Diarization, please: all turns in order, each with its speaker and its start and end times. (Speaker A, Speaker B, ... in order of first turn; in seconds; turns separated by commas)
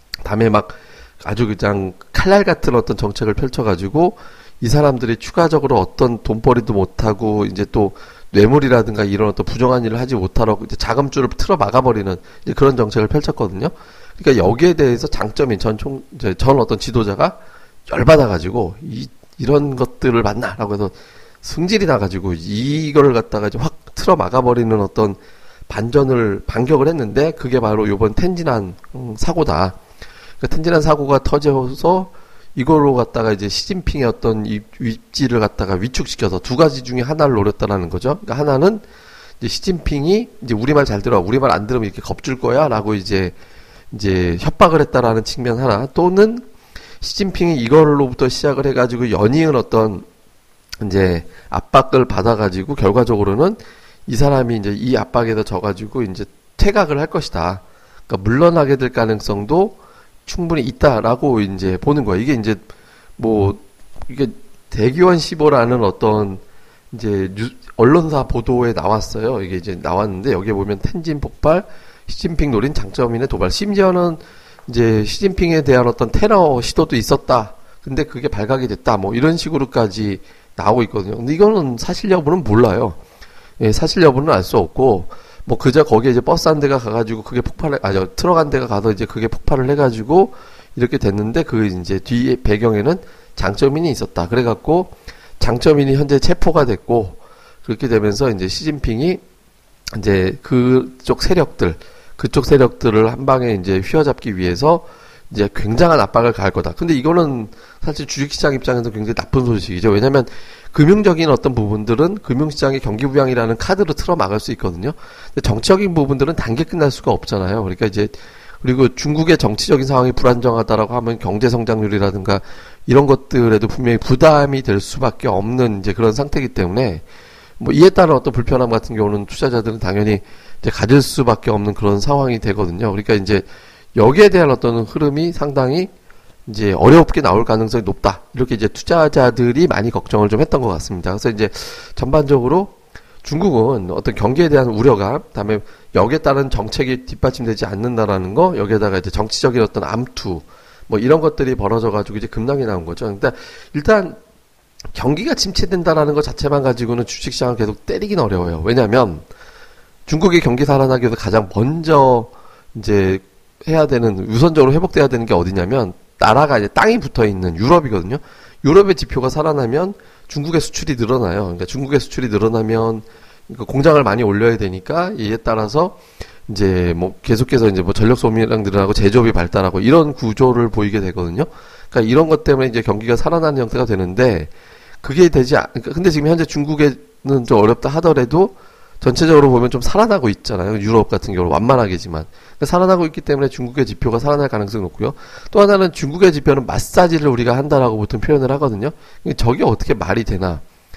Speaker A: 0.2-29.8, Speaker A: 30.4-38.8, Speaker A: 39.4-43.4, Speaker A: 43.9-46.5, Speaker A: 47.0-50.0, Speaker A: 50.8-62.6, Speaker A: 63.2-83.0, Speaker A: 83.6-99.2, Speaker A: 99.9-127.0, Speaker A: 127.6-135.9, Speaker A: 136.4-154.2, Speaker A: 154.9-159.2, Speaker A: 160.1-184.5, Speaker A: 185.0-200.6